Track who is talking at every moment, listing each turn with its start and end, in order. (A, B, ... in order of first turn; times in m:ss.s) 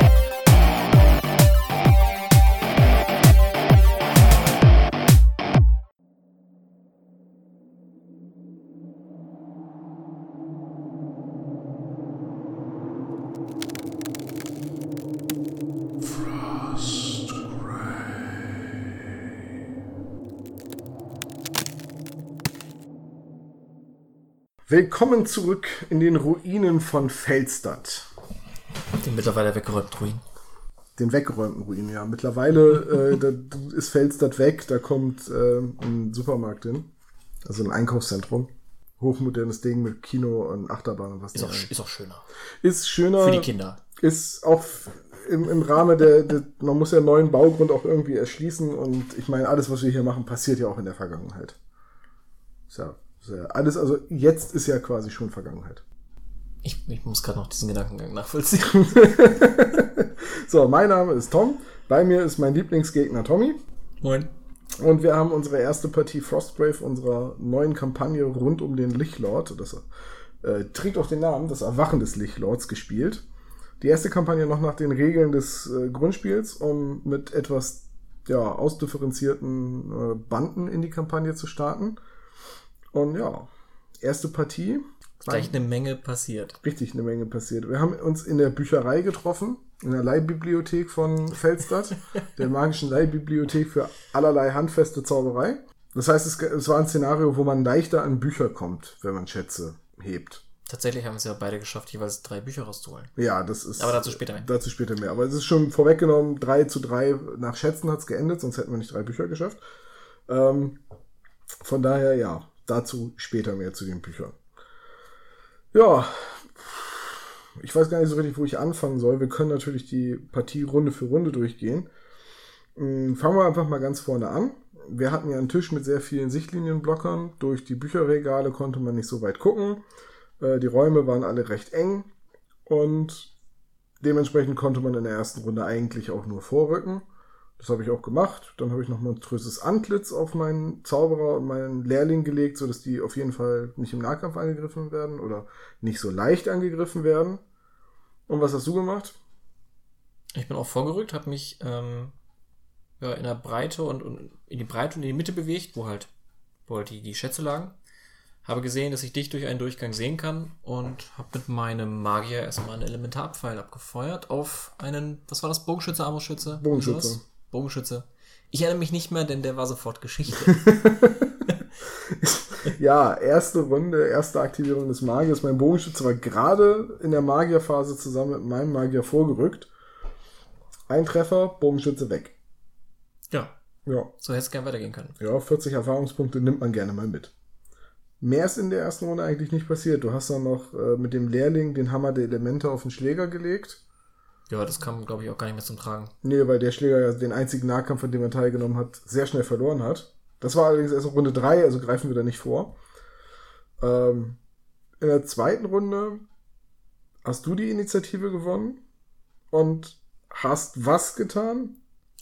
0:24.7-0:28.1 A
0:28.9-0:30.2 B
0:31.0-0:36.9 A
0:37.4-0:41.7 A
0:41.3-0:42.2 B
0:42.6-0:51.6 A
0:43.2-0:43.8 B
0:52.7-0:55.8 A
0:56.6-0:59.0 B
0:58.7-1:03.6 A
1:04.0-1:04.3 B
1:04.8-1:09.9 A
1:10.4-1:13.2 A
1:13.8-1:22.0 A
1:22.9-1:23.5 A
1:24.0-1:25.6 A
1:25.3-1:26.6 B
1:26.6-1:40.4 A
1:31.9-1:32.3 B
1:40.7-1:43.1 B
1:43.2-1:49.6 A
1:43.8-1:44.5 B
1:50.3-1:50.8 A
1:51.6-1:54.4 A
1:55.7-2:01.9 A
2:02.8-2:09.8 A
2:10.4-2:12.1 A
2:12.7-2:13.3 A
2:14.0-2:17.0 A
2:17.6-2:27.4 A
2:28.3-2:29.2 A
2:30.4-2:32.1 B
2:33.0-2:36.1 B
2:36.7-2:37.8 B
2:38.4-2:50.7 B
2:46.6-2:47.2 A
2:50.4-2:59.7 A
3:00.9-3:02.4 A
3:04.2-3:05.2 B
3:05.2-3:07.3 A
3:08.2-3:13.8 A
3:14.5-3:16.1 B
3:16.2-3:22.8 A
3:23.8-3:24.4 A
3:25.0-3:26.2 A
3:27.2-3:28.8 A
3:29.5-3:31.8 A